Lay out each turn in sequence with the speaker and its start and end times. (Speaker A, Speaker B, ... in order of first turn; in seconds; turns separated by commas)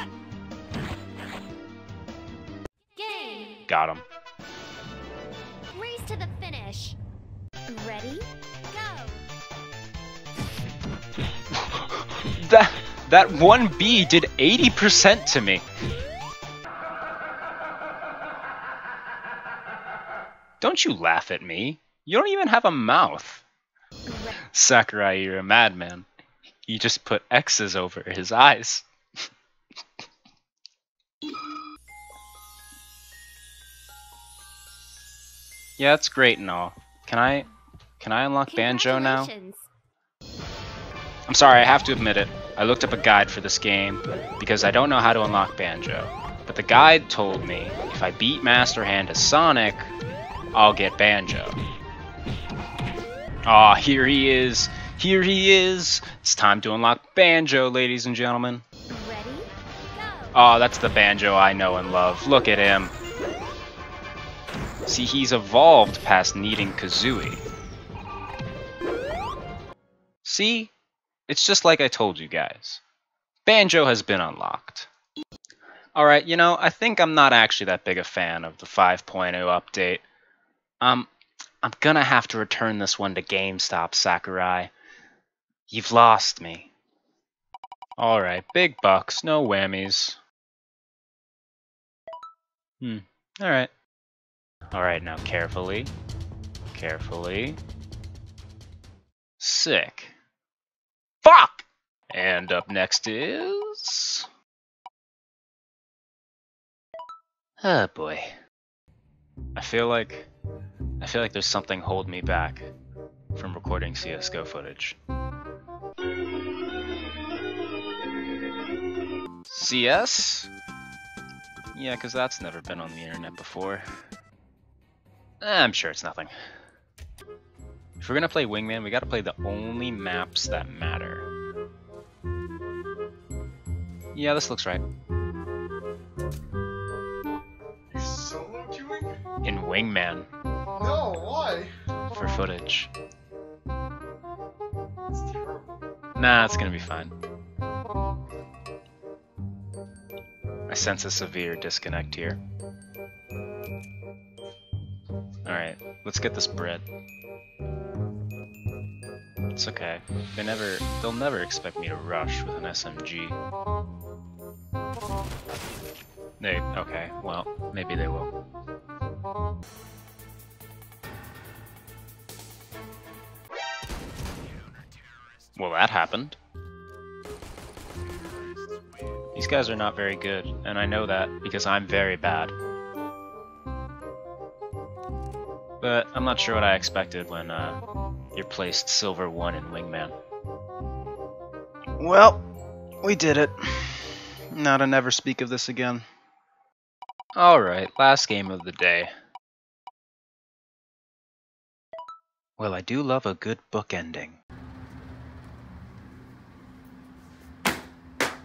Speaker A: 3.0-3.6, Speaker B: 3.7-4.0, Speaker A: 5.7-7.0, Speaker A: 7.7-9.3, Speaker B: 11.6-15.6, Speaker B: 20.6-23.4, Speaker A: 24.1-24.3, Speaker B: 24.5-26.1, Speaker B: 26.7-28.9, Speaker B: 35.8-37.5, Speaker B: 38.0-39.3, Speaker A: 38.5-39.7, Speaker B: 41.3-49.9, Speaker B: 50.5-51.6, Speaker B: 53.5-58.6, Speaker A: 58.9-60.4, Speaker B: 60.3-62.9, Speaker B: 64.9-67.4, Speaker B: 70.2-70.7, Speaker B: 71.3-72.8, Speaker B: 73.5-74.9, Speaker B: 76.0-80.0, Speaker B: 80.8-81.1, Speaker B: 81.6-84.7, Speaker B: 85.7-86.7, Speaker B: 88.0-90.2, Speaker B: 92.8-93.7, Speaker B: 94.7-95.9, Speaker B: 96.7-97.6, Speaker B: 99.4-100.1, Speaker B: 101.2-104.3, Speaker B: 107.6-108.3, Speaker B: 109.5-110.3, Speaker B: 111.0-112.7, Speaker B: 113.3-115.0, Speaker B: 119.5-120.5, Speaker B: 121.7-123.8, Speaker B: 125.4-126.3, Speaker B: 128.0-131.3, Speaker B: 134.1-134.8, Speaker C: 137.9-139.1, Speaker B: 139.4-140.3, Speaker C: 140.8-141.7, Speaker B: 142.1-142.9, Speaker C: 145.1-145.7, Speaker B: 146.2-147.1, Speaker B: 150.7-152.4, Speaker B: 155.4-156.8, Speaker B: 159.5-163.4, Speaker B: 166.4-168.3, Speaker B: 175.6-176.4, Speaker B: 179.3-182.5, Speaker B: 185.8-187.8, Speaker B: 188.3-190.2, Speaker B: 192.0-192.4, Speaker B: 193.0-196.0, Speaker B: 197.3-199.1, Speaker B: 202.6-204.4